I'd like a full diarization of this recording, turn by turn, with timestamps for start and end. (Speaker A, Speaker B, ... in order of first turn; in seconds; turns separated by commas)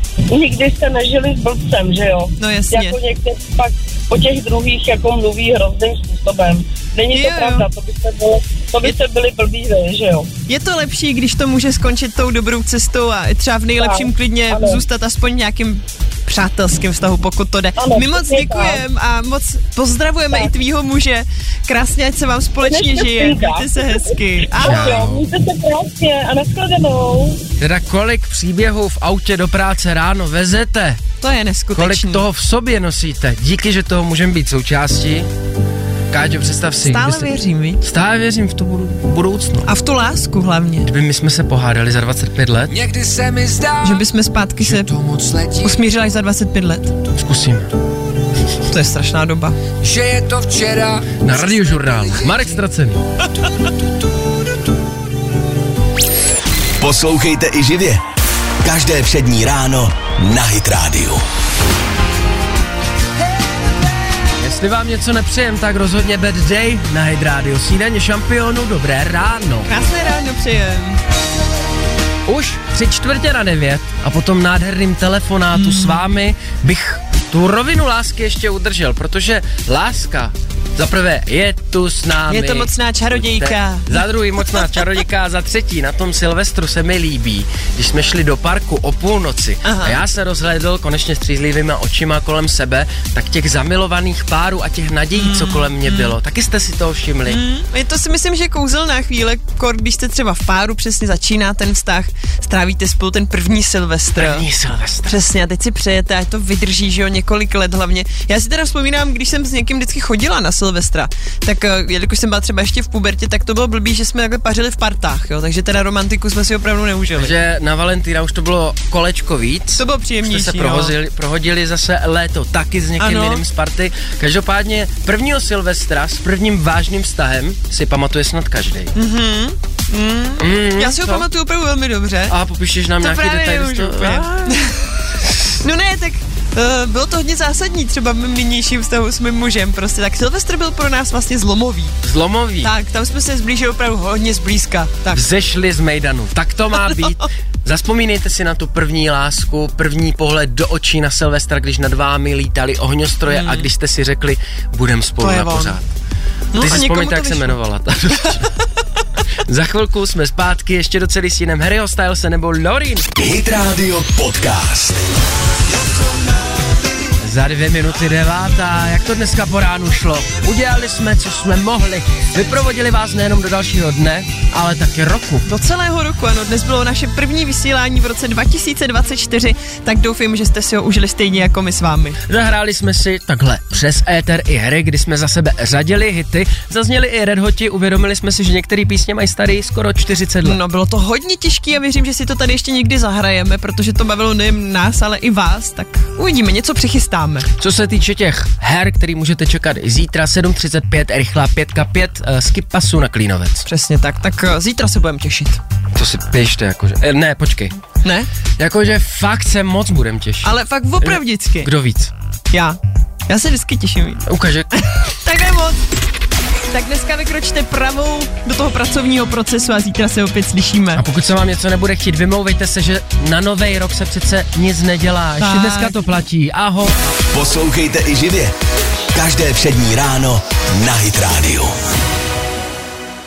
Speaker A: 0.3-10.3, Speaker B: 2.4-3.0, Speaker B: 7.1-7.7, Speaker B: 10.5-25.0, Speaker A: 13.8-14.8, Speaker A: 17.8-18.8, Speaker A: 20.3-20.6, Speaker A: 22.6-27.4, Speaker C: 24.6-25.3, Speaker C: 27.6-31.0, Speaker B: 31.2-32.2, Speaker C: 31.7-35.3, Speaker C: 36.1-37.3, Speaker B: 36.8-37.8, Speaker C: 37.8-39.7, Speaker B: 39.6-40.9, Speaker C: 40.9-42.7, Speaker D: 42.7-44.1, Speaker B: 43.8-44.9, Speaker D: 44.6-45.8, Speaker B: 45.6-46.9, Speaker C: 47.1-47.7, Speaker B: 48.7-49.6, Speaker D: 49.8-52.5, Speaker C: 51.1-53.0, Speaker E: 56.8-58.0, Speaker E: 58.6-61.2, Speaker C: 64.4-69.7, Speaker B: 69.7-71.0, Speaker C: 72.2-97.4, Speaker B: 75.5-76.0, Speaker B: 82.3-84.7, Speaker B: 89.6-90.0, Speaker B: 95.2-96.1, Speaker B: 97.3-104.5, Speaker C: 104.2-105.2, Speaker B: 105.1-117.4, Speaker C: 117.1-128.9, Speaker B: 119.8-120.9, Speaker B: 123.0-123.4, Speaker B: 128.9-132.3, Speaker C: 130.4-131.3, Speaker C: 132.3-134.3, Speaker B: 133.0-134.8, Speaker B: 135.6-142.0, Speaker C: 142.0-142.7, Speaker B: 142.6-145.2, Speaker C: 145.1-155.8, Speaker B: 146.8-147.2, Speaker B: 153.3-153.7, Speaker B: 155.2-155.8, Speaker B: 156.5-157.6, Speaker C: 156.5-158.5, Speaker C: 159.5-163.1, Speaker E: 163.2-165.0, Speaker C: 167.2-175.4, Speaker B: 175.4-182.2, Speaker C: 182.3-190.6, Speaker B: 190.4-197.5, Speaker C: 197.6-203.7, Speaker B: 203.7-205.6, Speaker C: 205.9-207.7, Speaker B: 208.0-208.3, Speaker C: 208.6-212.1, Speaker B: 210.4-211.7, Speaker B: 212.5-214.2, Speaker C: 214.3-214.7, Speaker B: 214.8-215.8, Speaker B: 216.7-221.0, Speaker C: 220.9-226.9, Speaker B: 225.4-226.0, Speaker E: 227.3-228.6, Speaker E: 229.1-231.7